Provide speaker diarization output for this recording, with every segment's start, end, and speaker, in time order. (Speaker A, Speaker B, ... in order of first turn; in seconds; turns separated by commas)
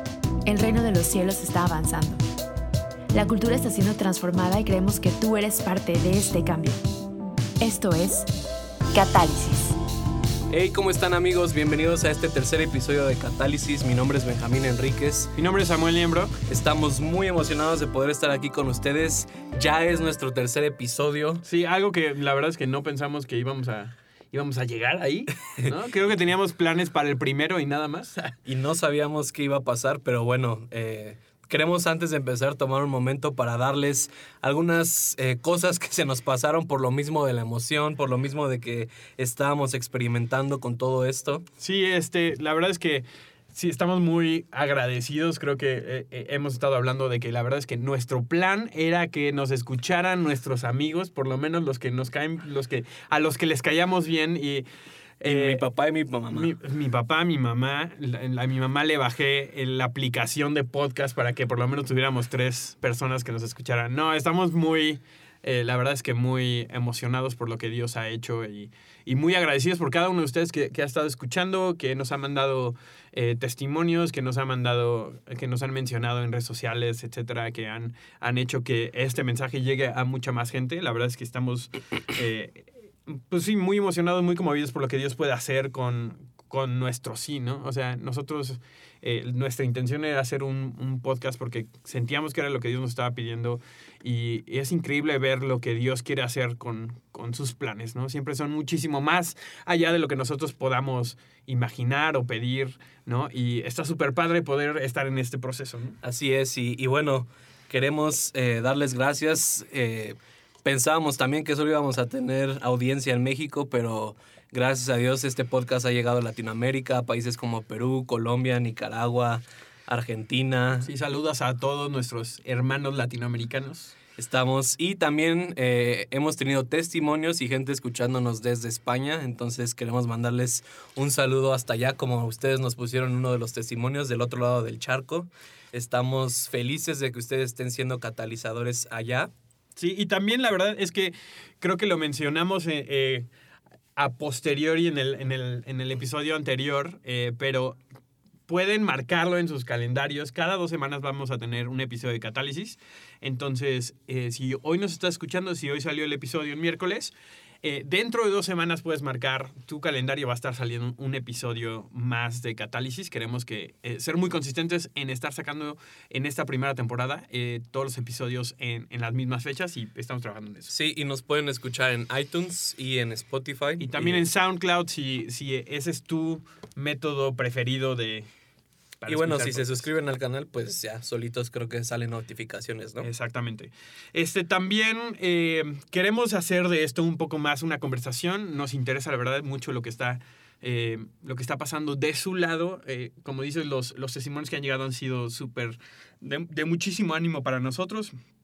Speaker A: 0.5-2.2, Speaker A: 3.1-6.8, Speaker A: 7.6-8.3, Speaker A: 8.9-9.8, Speaker B: 10.5-15.3, Speaker C: 15.4-16.4, Speaker B: 16.5-21.4, Speaker C: 21.4-28.4, Speaker B: 28.5-41.5, Speaker C: 41.6-54.6, Speaker C: 55.2-55.6, Speaker B: 55.2-56.5, Speaker C: 56.3-106.0, Speaker B: 106.0-120.9, Speaker C: 120.8-123.9, Speaker B: 124.2-139.3, Speaker C: 139.8-143.3, Speaker C: 144.0-147.8, Speaker C: 148.5-170.7, Speaker B: 170.7-174.2, Speaker C: 173.8-178.3, Speaker C: 179.0-179.8, Speaker B: 179.1-183.1, Speaker C: 183.0-198.1